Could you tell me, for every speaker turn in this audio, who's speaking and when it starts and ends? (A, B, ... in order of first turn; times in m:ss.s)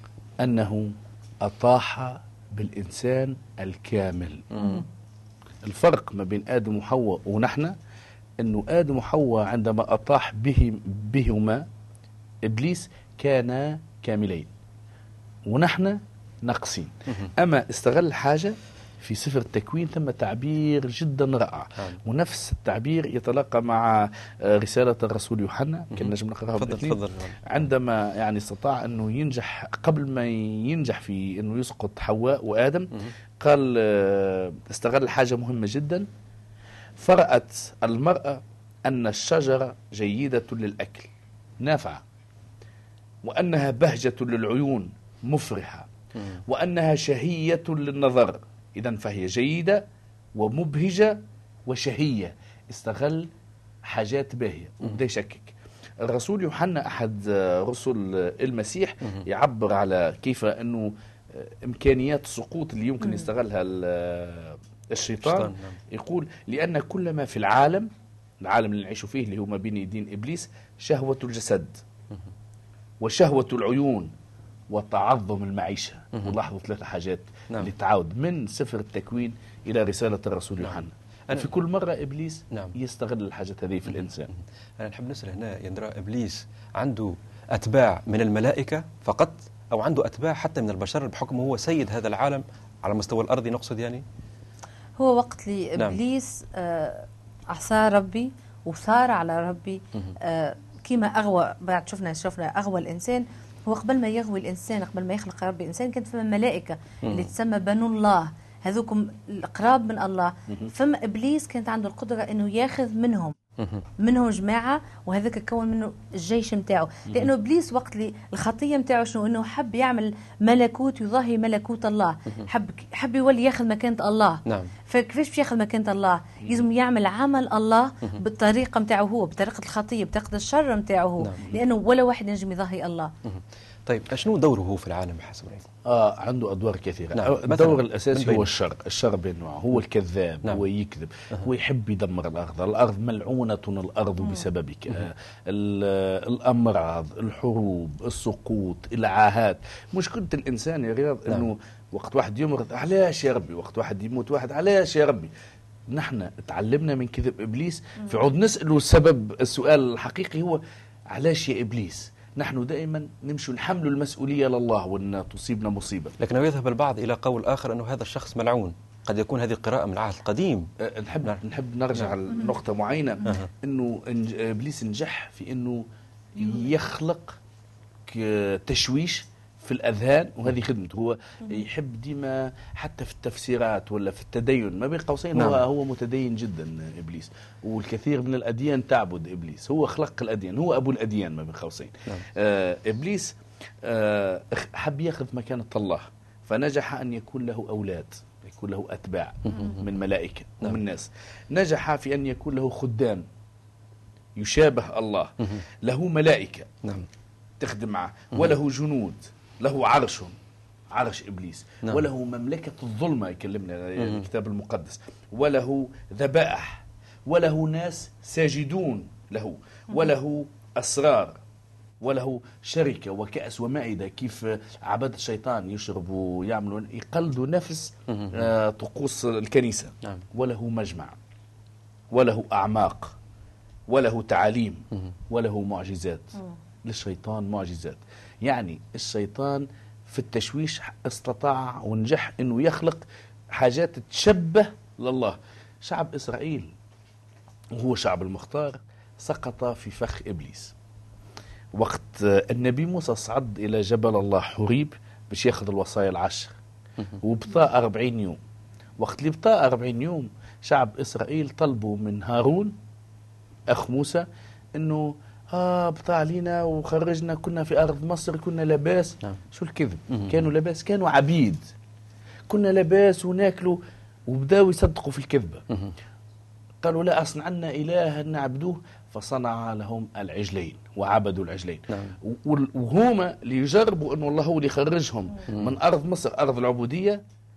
0:00.4-0:04.5 A
0:04.5-0:04.8 B
0:04.6-0:04.8 C
0:05.6-0:07.8 A
0:08.4-0:11.7 A
0:12.4-0:14.5 A
0:15.5-0:36.1 A
0:26.0-0:27.6 B
0:37.0-0:42.0 A
0:43.2-0:45.9 A
0:46.5-0:53.3 A
0:53.8-1:07.9 A
1:05.2-1:05.8 B
1:08.4-1:11.8 A
1:13.0-1:14.1 A
1:14.7-1:24.3 A
1:24.8-1:34.0 B
1:35.0-1:53.4 C
1:47.0-1:47.3 B
1:53.6-1:53.8 B
1:54.0-2:13.1 C
2:04.5-2:04.7 B
2:11.2-2:11.5 B
2:13.2-2:15.7 B
2:15.8-2:35.3 A
2:17.1-2:18.5 B
2:35.9-2:46.2 A
2:46.2-2:50.7 B
2:50.8-2:57.4 A
2:53.2-2:53.5 B
2:58.1-3:23.2 A
3:05.4-3:05.6 B
3:19.5-3:19.8 B
3:24.4-3:26.8 A
3:27.6-3:30.3 A
3:30.9-3:41.4 A
3:42.0-3:51.2 A
3:48.1-3:48.4 B
3:52.1-3:53.2 A
3:53.9-4:06.7 A
4:07.8-4:10.7 A
4:11.7-4:16.6 A
4:17.2-4:18.4 A
4:19.0-4:22.8 A
4:23.7-4:31.7 A
4:30.1-4:30.4 B
4:32.5-4:35.6 A
4:36.8-4:47.2 A
4:41.9-4:42.2 B
4:45.5-4:45.8 B